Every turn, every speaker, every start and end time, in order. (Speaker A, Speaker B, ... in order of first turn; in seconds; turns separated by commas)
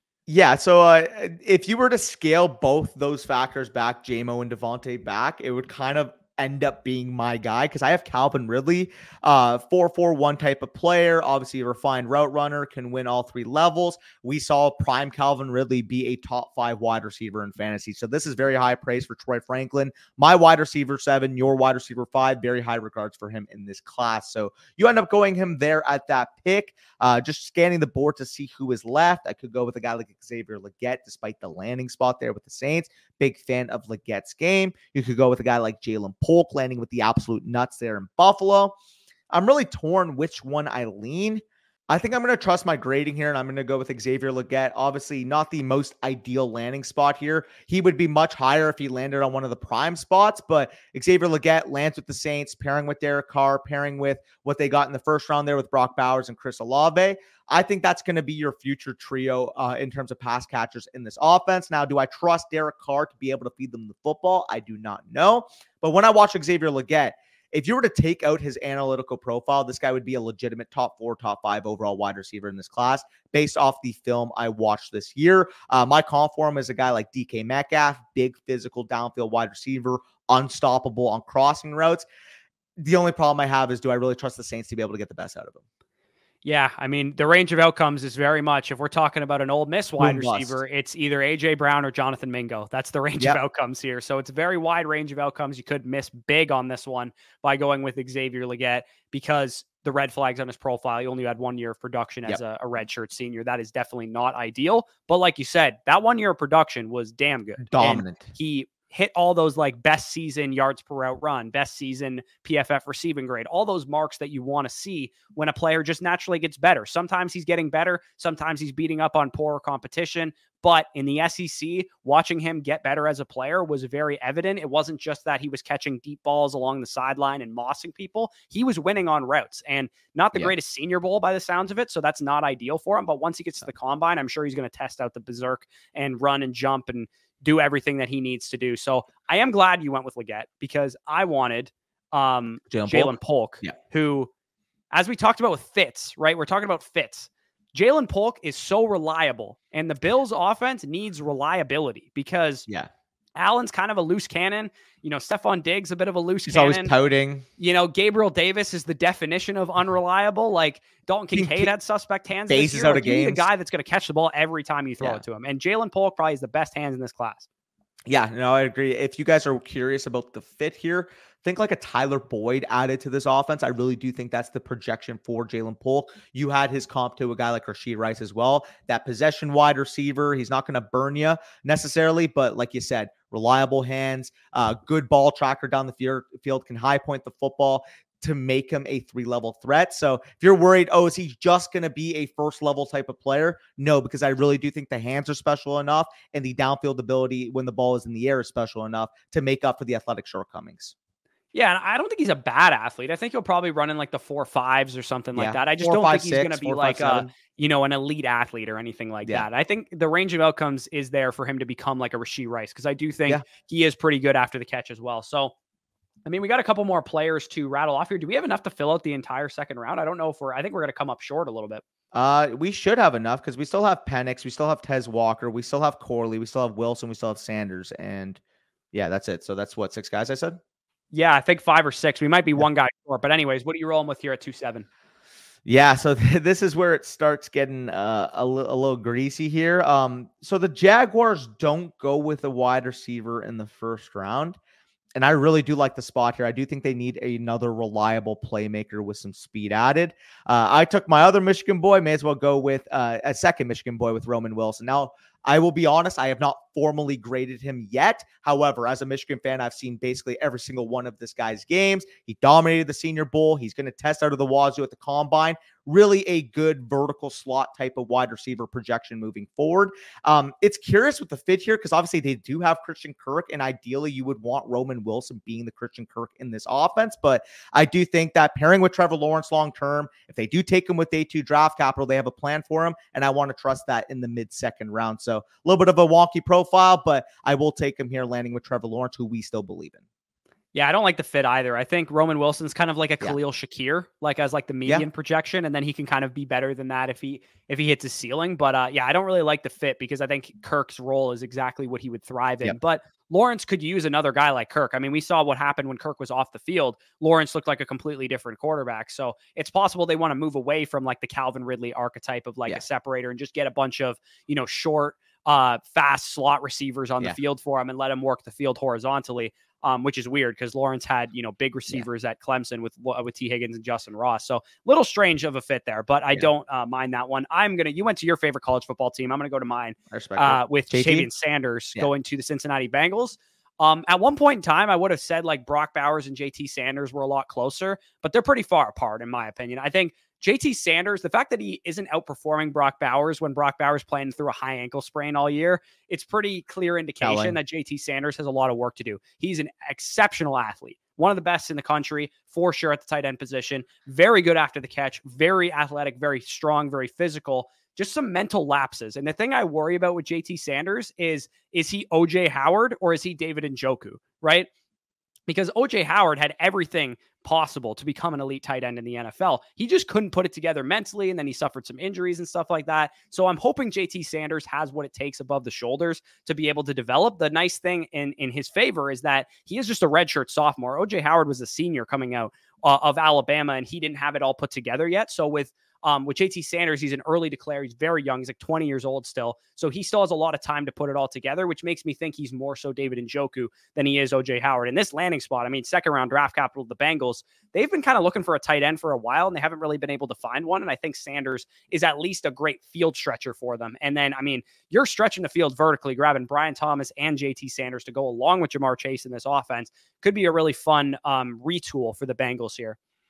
Speaker A: 0.3-38.7, Speaker A: 39.3-82.1, Speaker A: 82.8-85.6, Speaker B: 86.4-144.3, Speaker A: 90.0-90.6, Speaker A: 107.7-108.3, Speaker A: 142.7-143.7, Speaker B: 144.9-152.7, Speaker B: 153.4-156.9, Speaker A: 156.4-157.4, Speaker B: 157.6-167.5, Speaker A: 161.3-161.7, Speaker A: 162.5-163.4, Speaker A: 168.1-200.9, Speaker B: 201.5-215.5, Speaker A: 205.3-207.3, Speaker B: 216.2-221.8, Speaker A: 222.1-228.4, Speaker A: 228.9-230.6, Speaker B: 231.1-234.8, Speaker A: 235.7-244.6, Speaker A: 245.2-290.0, Speaker B: 290.7-364.7, Speaker A: 330.1-331.3, Speaker A: 347.2-347.6, Speaker B: 365.5-413.0